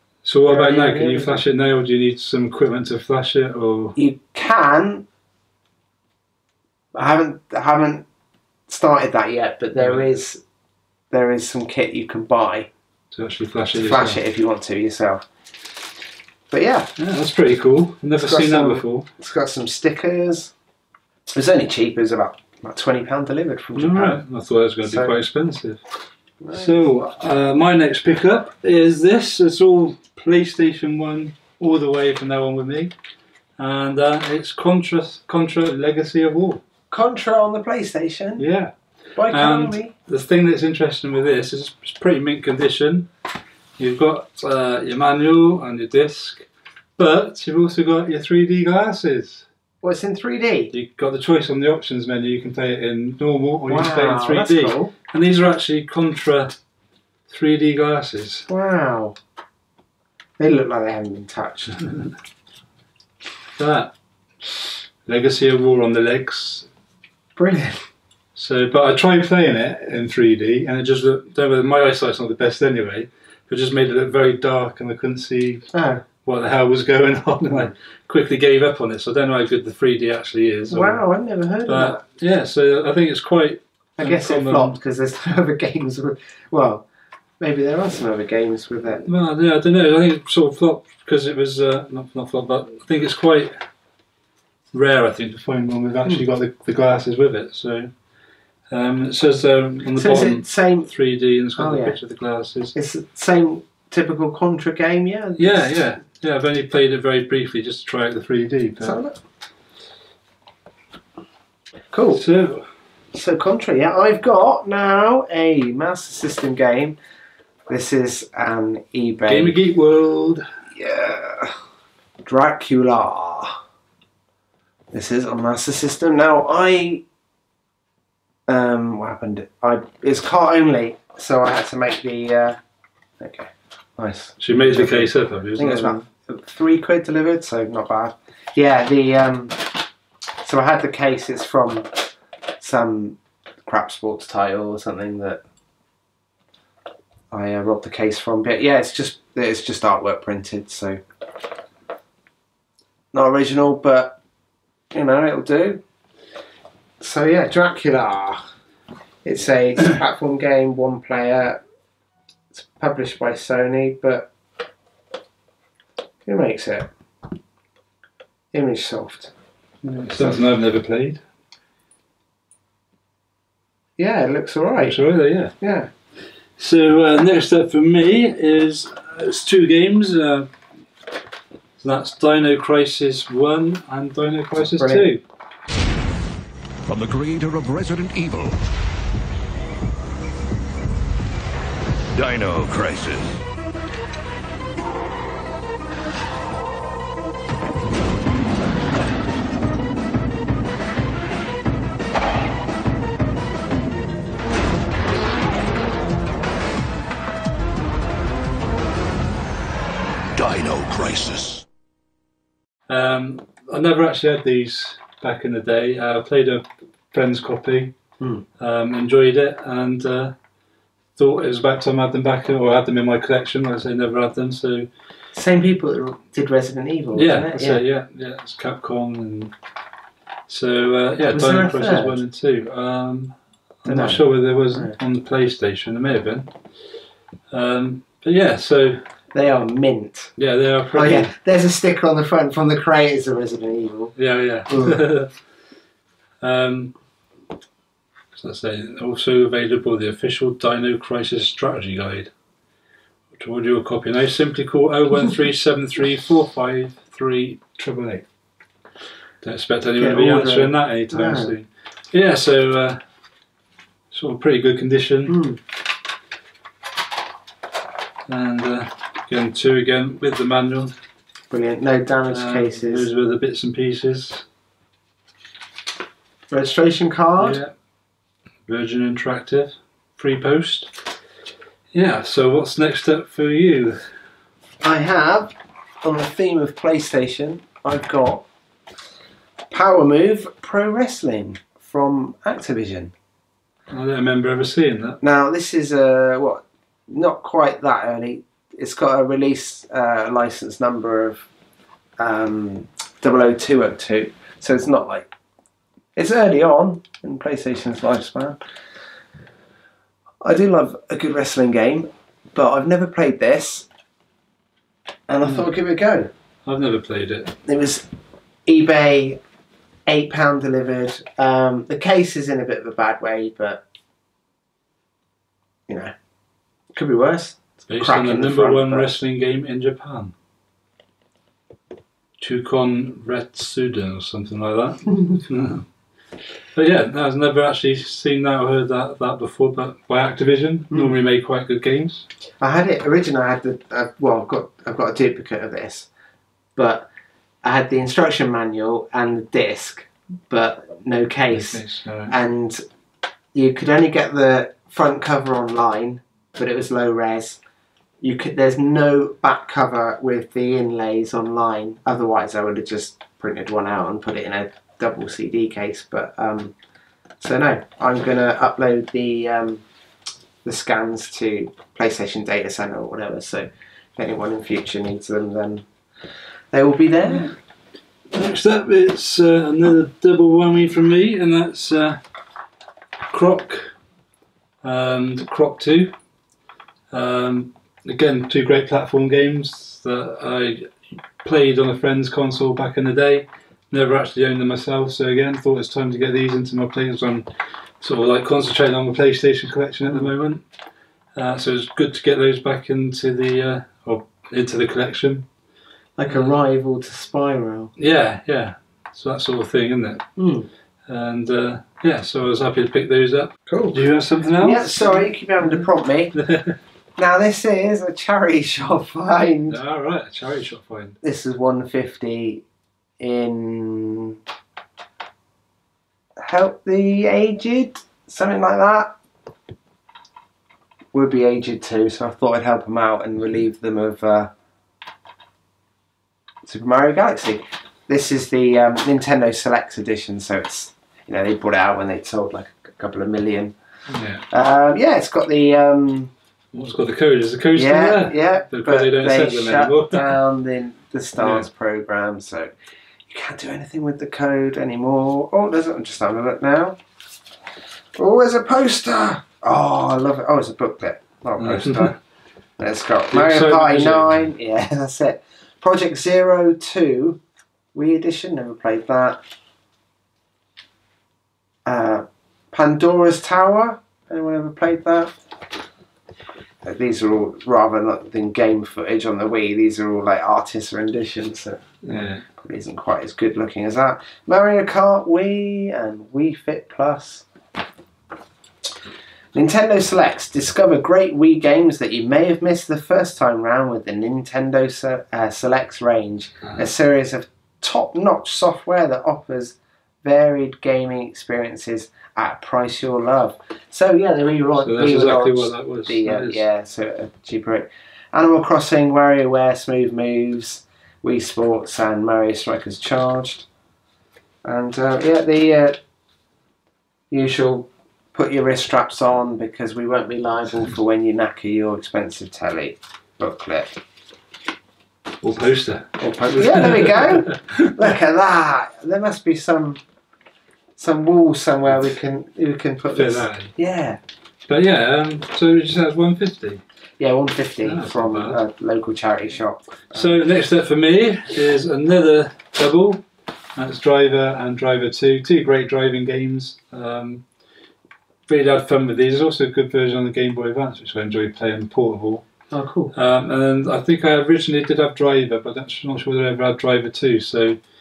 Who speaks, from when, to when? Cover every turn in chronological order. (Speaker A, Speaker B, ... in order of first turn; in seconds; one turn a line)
Speaker A: 0.2-4.0
Speaker B: 0.5-1.4
Speaker B: 4.0-5.0
Speaker B: 6.9-8.1
Speaker B: 8.7-10.4
Speaker A: 9.8-10.0
Speaker B: 11.1-12.7
Speaker A: 13.1-14.2
Speaker B: 13.8-15.2
Speaker B: 16.5-16.9
Speaker A: 17.0-19.1
Speaker B: 18.2-20.5
Speaker B: 21.3-24.2
Speaker A: 23.7-25.8
Speaker B: 24.8-25.1
Speaker B: 26.4-26.8
Speaker A: 26.5-32.9
Speaker A: 33.6-36.6
Speaker B: 36.9-38.4
Speaker A: 38.4-38.7
Speaker B: 39.1-39.9
Speaker A: 39.3-43.1
Speaker A: 43.8-46.5
Speaker A: 47.0-49.5
Speaker B: 49.8-50.7
Speaker A: 50.7-56.5
Speaker B: 53.7-54.9
Speaker A: 57.3-58.5
Speaker B: 58.5-59.1
Speaker B: 60.4-61.8
Speaker A: 61.8-62.1
Speaker A: 63.6-63.9
Speaker A: 65.0-66.7
Speaker B: 67.3-67.8
Speaker A: 68.3-75.7
Speaker B: 75.7-76.0
Speaker A: 76.2-81.0
Speaker B: 80.7-82.0
Speaker A: 81.7-84.8
Speaker B: 84.0-86.8
Speaker B: 87.4-89.0
Speaker A: 89.0-93.5
Speaker A: 94.7-97.9
Speaker A: 98.7-102.7
Speaker B: 99.9-100.9
Speaker B: 101.6-102.0
Speaker B: 102.7-105.9
Speaker A: 105.4-109.0
Speaker B: 108.8-109.2
Speaker B: 111.9-112.2
Speaker A: 112.1-112.7
Speaker B: 113.1-117.0
Speaker B: 117.7-119.6
Speaker A: 119.3-120.4
Speaker B: 120.7-121.5
Speaker B: 122.2-123.6
Speaker B: 124.9-127.0
Speaker B: 128.5-132.6
Speaker B: 133.2-139.8
Speaker A: 134.4-136.0
Speaker B: 140.4-145.4
Speaker B: 147.3-151.0
Speaker B: 153.1-154.2
Speaker B: 154.9-155.8
Speaker B: 157.0-158.4
Speaker B: 159.2-161.6
Speaker B: 162.5-164.3
Speaker B: 166.2-166.9
Speaker B: 168.5-169.3
Speaker A: 169.8-171.2
Speaker B: 174.0-175.0
Speaker A: 174.8-175.5
Speaker B: 175.6-175.9
Speaker A: 176.6-180.5
Speaker A: 181.8-185.2
Speaker B: 184.6-185.1
Speaker C: 186.9-188.6
Speaker C: 192.1-193.4
Speaker C: 210.3-211.6
Speaker A: 212.9-217.9
Speaker A: 218.6-220.3
Speaker A: 221.2-224.9
Speaker B: 225.3-227.8
Speaker A: 227.1-229.5
Speaker A: 230.5-236.5
Speaker B: 231.3-232.2
Speaker B: 233.8-234.9
Speaker A: 237.5-239.0
Speaker B: 239.3-240.3
Speaker A: 240.4-241.3
Speaker B: 240.9-244.1
Speaker A: 244.2-245.3
Speaker B: 244.7-245.0
Speaker A: 246.4-246.9
Speaker A: 248.3-252.3
Speaker A: 253.3-258.2
Speaker A: 259.4-263.0
Speaker B: 260.0-261.5
Speaker A: 264.1-265.4
Speaker B: 265.3-265.6
Speaker A: 268.3-270.9
Speaker B: 271.5-273.1
Speaker A: 272.3-274.4
Speaker B: 276.5-277.6
Speaker A: 277.4-277.7
Speaker A: 278.7-280.9
Speaker A: 281.9-284.1
Speaker B: 284.8-288.4
Speaker B: 289.7-293.1
Speaker A: 293.9-295.2
Speaker B: 295.2-301.4
Speaker B: 302.2-305.3
Speaker B: 306.1-308.6
Speaker B: 310.4-313.9
Speaker B: 315.3-316.3
Speaker A: 316.6-317.6
Speaker B: 317.6-318.1
Speaker B: 318.6-319.4
Speaker B: 320.1-323.8
Speaker B: 325.9-326.1
Speaker B: 326.9-329.1
Speaker A: 327.9-330.3
Speaker A: 332.4-335.9
Speaker A: 336.7-342.2
Speaker B: 342.6-346.1
Speaker B: 346.8-347.1
Speaker B: 347.6-352.8
Speaker A: 351.5-352.4
Speaker B: 353.5-357.6
Speaker B: 358.2-366.7
Speaker B: 367.4-369.8
Speaker B: 370.6-375.8
Speaker B: 376.7-377.5
Speaker A: 378.3-382.2
Speaker A: 383.3-383.9
Speaker A: 384.8-386.1
Speaker A: 387.1-397.4
Speaker A: 398.0-400.6
Speaker A: 401.3-405.4
Speaker B: 406.2-407.9
Speaker A: 408.0-410.2
Speaker B: 410.4-410.7
Speaker A: 411.1-415.7
Speaker B: 413.7-414.0
Speaker B: 414.6-416.4
Speaker A: 416.4-416.8
Speaker B: 417.2-419.8
Speaker A: 419.7-421.2
Speaker B: 421.2-422.6
Speaker B: 423.2-424.4
Speaker B: 426.4-429.1
Speaker B: 431.1-434.5
Speaker B: 436.6-443.7
Speaker A: 444.1-444.4
Speaker B: 444.5-446.3
Speaker A: 446.7-450.4
Speaker B: 447.7-452.7
Speaker A: 451.4-451.6
Speaker B: 453.2-457.0
Speaker B: 458.1-462.1
Speaker A: 461.6-462.1
Speaker B: 462.8-467.4
Speaker A: 463.3-464.5
Speaker B: 467.9-469.4
Speaker B: 471.8-475.4
Speaker B: 476.8-487.5
Speaker A: 482.0-482.4
Speaker B: 489.5-513.6
Speaker A: 504.8-506.6
Speaker B: 514.6-516.0
Speaker B: 517.3-524.0
Speaker A: 525.4-527.9
Speaker B: 526.2-530.0
Speaker B: 531.0-534.2
Speaker A: 533.1-533.7
Speaker A: 534.7-536.8
Speaker B: 537.2-540.4
Speaker A: 537.8-538.6
Speaker A: 540.1-543.2
Speaker A: 543.8-547.4
Speaker A: 548.5-552.4
Speaker B: 552.7-553.1
Speaker A: 553.1-557.8